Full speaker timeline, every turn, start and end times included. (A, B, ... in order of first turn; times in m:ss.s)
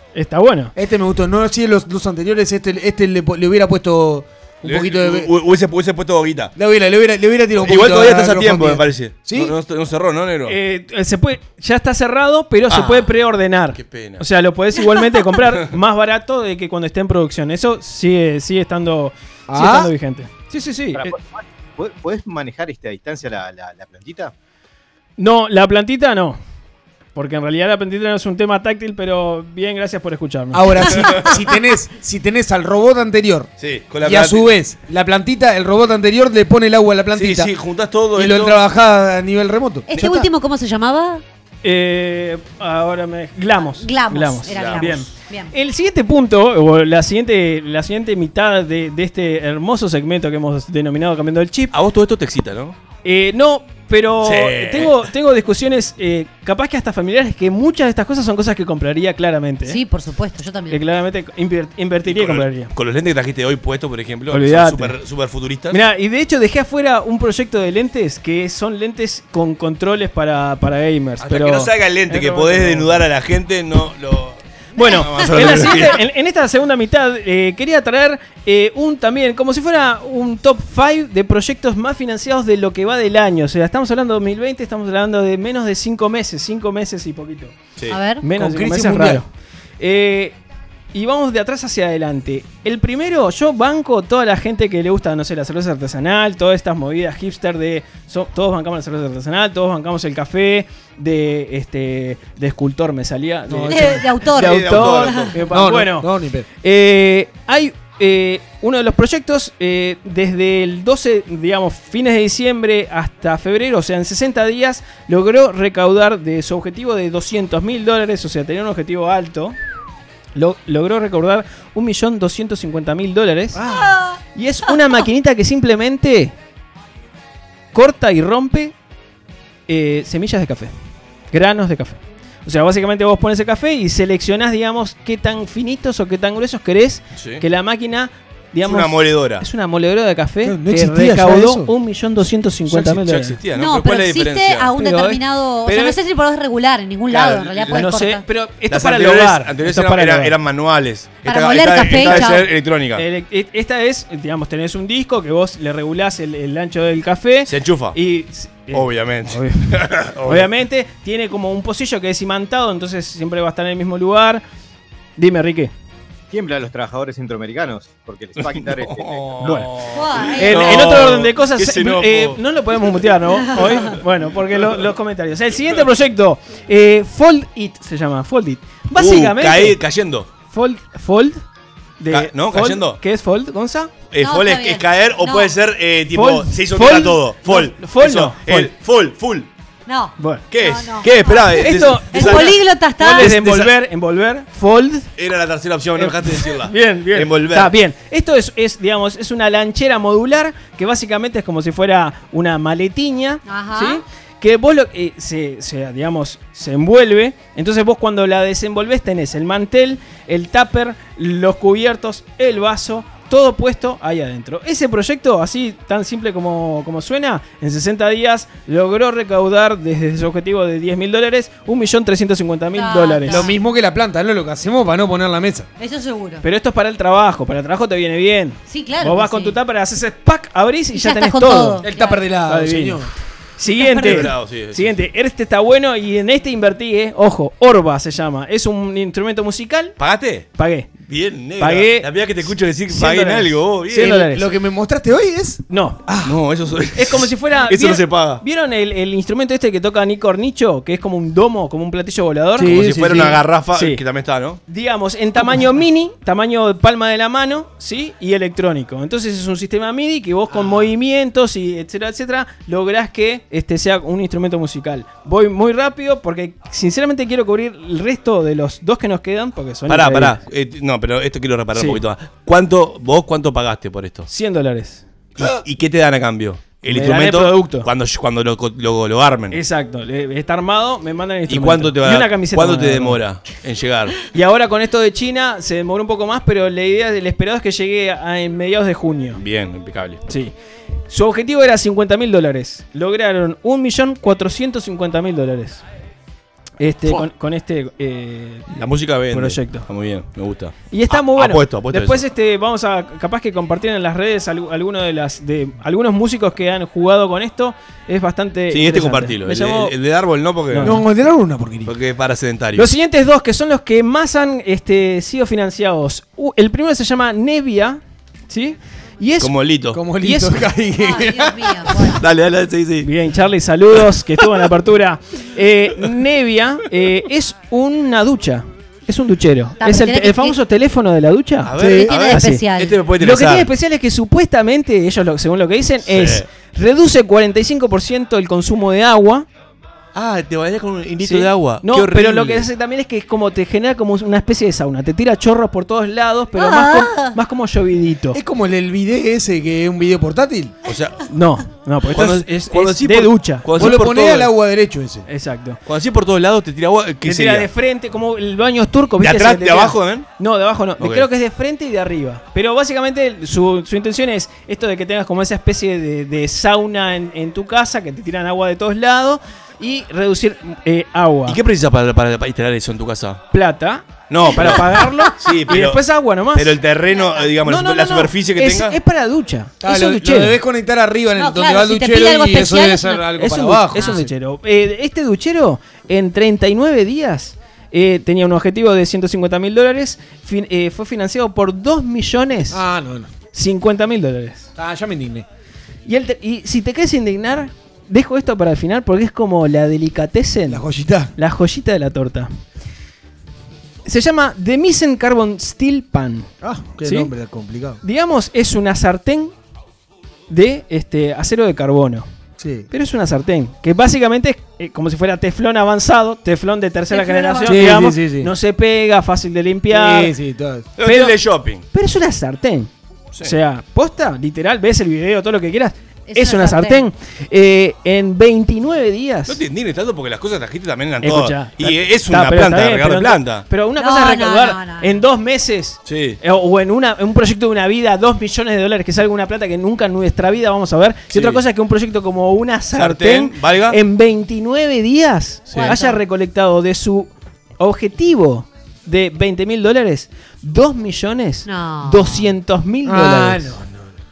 0:00.1-0:00.7 A
0:00.7-0:05.3 B
0:04.6-0:06.5 C
0:06.6-0:09.5 B
0:07.6-0:10.6 C
0:10.4-0:21.1 A
0:12.7-0:13.1 C
0:13.7-0:14.2 C
0:19.5-0:19.9 B
0:20.9-0:24.3 D
0:25.2-0:26.4 A
0:27.1-0:31.0 A
0:30.5-0:33.5 B
0:30.9-0:31.3 C
0:33.6-0:34.5 C
0:34.0-0:37.5 B
0:37.1-0:38.6 C
0:38.1-0:40.3 B
0:39.9-0:41.2 E
0:41.6-0:51.7 A
0:43.6-0:45.5 E
0:44.5-0:44.8 C
0:51.7-0:52.8 C
0:53.0-0:59.8 A
0:54.2-0:55.1 C
0:59.6-1:00.8 E
1:00.7-1:02.7 A
1:02.0-1:05.8 C
1:04.3-1:05.0 A
1:05.7-1:13.0 A
1:11.2-1:16.0 C
1:14.8-1:27.5 A
1:27.9-1:28.2 E
1:28.2-1:29.3 A
1:28.3-1:29.2 B
1:29.8-1:30.4 A
1:30.9-1:46.1 A
1:43.5-1:43.9 B
1:43.7-1:45.3 E
1:44.3-1:45.4 C
1:45.5-1:46.5 B
1:46.6-1:59.6 A
2:00.3-2:06.3 A
2:03.6-2:03.9 B
2:03.7-2:04.2 E
2:07.7-2:08.7 A
2:09.7-2:10.7 A
2:11.3-2:23.4 A
2:17.1-2:17.4 C
2:18.6-2:19.5 C
2:20.4-2:21.7 B
2:22.7-2:24.7 C
2:23.5-2:28.2 E
2:24.8-2:26.0 A
2:27.1-2:27.8 C
2:27.7-2:30.3 A
2:28.7-2:33.0 C
2:31.2-2:32.4 E
2:32.0-2:32.3 A
2:32.9-2:39.7 A
2:37.5-2:38.0 C
2:38.7-2:40.5 C
2:40.2-2:44.4 A
2:45.2-2:45.7 A
2:46.3-2:49.4 D
2:48.4-2:52.4 C
2:49.4-2:49.7 A
2:49.9-2:50.7 E
2:50.4-2:59.8 A
2:58.9-3:00.3 C
3:00.5-3:01.4 A
3:02.0-3:04.0 A
3:02.1-3:03.0 C
3:04.1-3:09.5 C
3:04.2-3:05.5 E
3:06.1-3:08.7 A
3:09.9-3:11.6 E
3:10.2-3:10.4 A
3:10.5-3:12.6 C
3:11.4-3:15.1 A
3:12.1-3:13.3 E
3:13.2-3:13.8 C
3:15.2-3:17.7 C
3:16.0-3:43.5 A
3:23.4-3:24.0 E
3:42.7-3:43.5 E
3:43.2-3:45.7 B
3:45.8-3:46.4 E
3:46.4-3:51.8 A
3:48.7-3:49.6 E
3:50.9-3:52.2 E
3:51.8-3:53.1 B
3:52.4-3:53.0 A
3:53.6-3:59.9 A
3:53.6-3:54.3 E
3:54.0-3:55.0 C
4:00.0-4:00.5 C
4:00.6-4:01.0 A
4:01.0-4:04.2 C
4:01.6-4:04.5 A
4:04.0-4:06.4 B
4:05.7-4:06.0 A
4:06.2-4:08.4 C
4:07.0-4:12.8 A
4:12.6-4:13.4 B
4:12.6-4:14.6 C
4:13.7-4:14.0 A
4:14.7-4:30.4 A
4:29.9-4:34.3 C
4:31.7-4:32.0 A
4:34.3-4:35.0 A
4:35.4-4:39.6 C
4:36.9-4:37.9 A
4:39.5-4:43.2 A
4:41.5-4:44.2 C
4:44.3-4:49.4 A
4:49.4-4:50.2 C
4:50.3-4:50.5 A
4:51.1-4:55.8 A
4:56.8-4:58.7 A
4:58.7-5:02.2 C
4:59.3-4:59.9 A
5:00.9-5:09.9 A
5:08.7-5:11.0 C
5:10.7-5:11.0 A
5:10.8-5:11.9 B
5:11.8-5:12.9 C
5:12.7-5:19.5 A
5:19.4-5:20.0 C
5:19.9-5:22.1 B
5:20.2-5:20.6 A
5:21.0-5:22.2 E
5:22.2-5:23.1 C
5:23.0-5:39.4 A
5:29.8-5:30.6 E
5:31.6-5:33.7 C
5:31.8-5:32.1 B
5:31.8-5:32.9 E
5:36.0-5:36.5 C
5:40.1-5:42.7 C
5:41.2-5:48.4 A
5:46.5-5:47.4 E
5:48.3-5:50.7 B
5:50.8-5:51.3 C
5:51.3-5:53.7 A
5:52.1-5:54.5 C
5:53.7-5:55.3 B
5:55.3-5:55.8 A
5:55.8-5:57.7 C
5:57.2-6:11.6 A
5:59.2-6:00.3 C
6:01.0-6:01.3 C
6:11.4-6:13.4 C
6:13.5-6:16.8 A
6:14.3-6:19.0 C
6:17.1-6:17.5 E
6:17.6-6:20.6 A
6:19.8-6:24.2 B
6:21.4-6:23.2 E
6:23.3-6:32.8 A
6:24.0-6:24.2 E
6:32.7-6:33.3 B
6:33.5-6:34.7 A
6:34.8-6:35.4 B
6:36.0-6:40.8 A
6:40.7-6:41.3 B
6:41.4-6:42.5 A
6:44.0-6:46.5 A
6:46.6-6:48.0 B
6:47.0-6:47.3 A
6:48.0-6:49.5 A
6:50.5-6:52.3 A
6:52.6-6:52.9 B
6:52.9-7:00.3 A
6:57.1-6:57.9 E
6:57.6-6:58.5 B
6:59.9-7:00.9 B
7:01.0-7:01.8 C
7:01.0-7:01.4 A
7:01.9-7:02.9 A
7:03.4-7:09.6 A
7:06.3-7:07.0 E
7:09.5-7:13.6 C
7:11.2-7:33.8 A
7:14.0-7:15.2 E
7:16.0-7:16.4 C
7:21.3-7:21.6 C
7:22.9-7:24.0 C
7:25.7-7:26.2 E
7:31.6-7:32.5 E
7:33.0-7:33.9 B